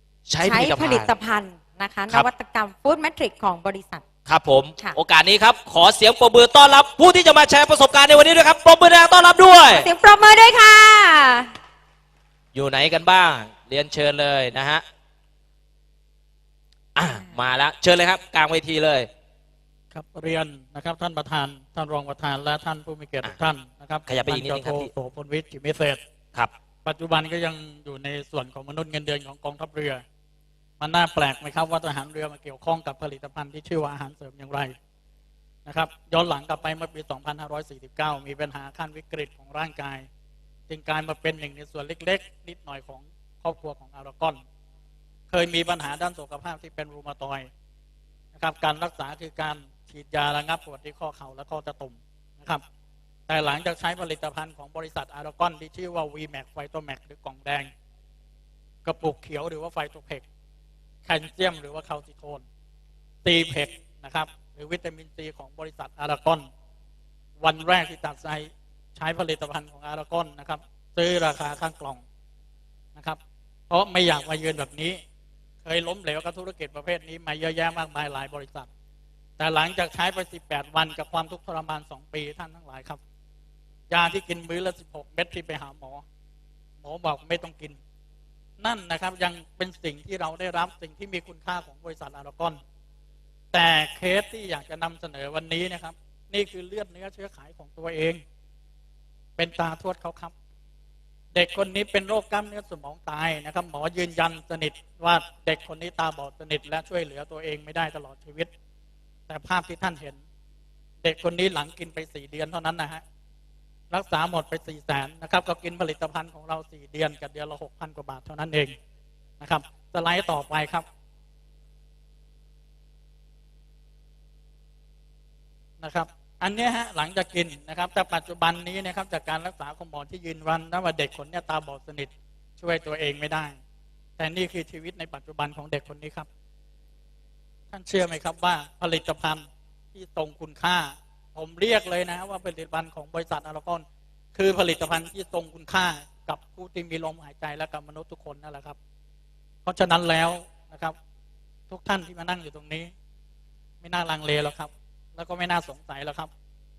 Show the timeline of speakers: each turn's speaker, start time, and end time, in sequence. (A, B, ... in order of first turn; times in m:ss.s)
0:00.3-0:01.1 A
0:00.4-0:04.0 B
0:04.3-0:09.9 A
0:09.7-0:11.5 B
0:12.5-0:14.8 A
0:16.9-0:19.1 A
0:19.9-0:26.0 C
0:24.1-0:24.9 A
0:26.8-0:30.0 C
0:30.8-0:34.7 C
0:35.6-0:40.1 C
0:40.7-0:44.4 C
0:45.3-0:47.5 C
0:48.3-0:52.6 C
0:53.3-0:57.7 C
0:58.8-1:00.2 C
1:01.0-1:02.4 C
1:03.2-1:06.4 C
1:07.4-1:12.0 C
1:13.7-1:15.0 C
1:15.6-1:18.7 C
1:19.4-1:23.0 C
1:23.9-1:26.0 C
1:26.8-1:27.8 C
1:28.6-1:32.6 C
1:33.5-1:38.2 C
1:39.4-1:40.3 C
1:41.3-1:48.5 C
1:49.3-1:50.2 C
1:51.0-1:53.0 C
1:53.9-1:58.7 C
1:59.4-2:00.8 C
2:05.8-2:13.6 C
2:14.2-2:16.3 C
2:17.7-2:28.8 C
2:29.6-2:30.9 C
2:31.7-2:32.9 C
2:33.8-2:36.3 C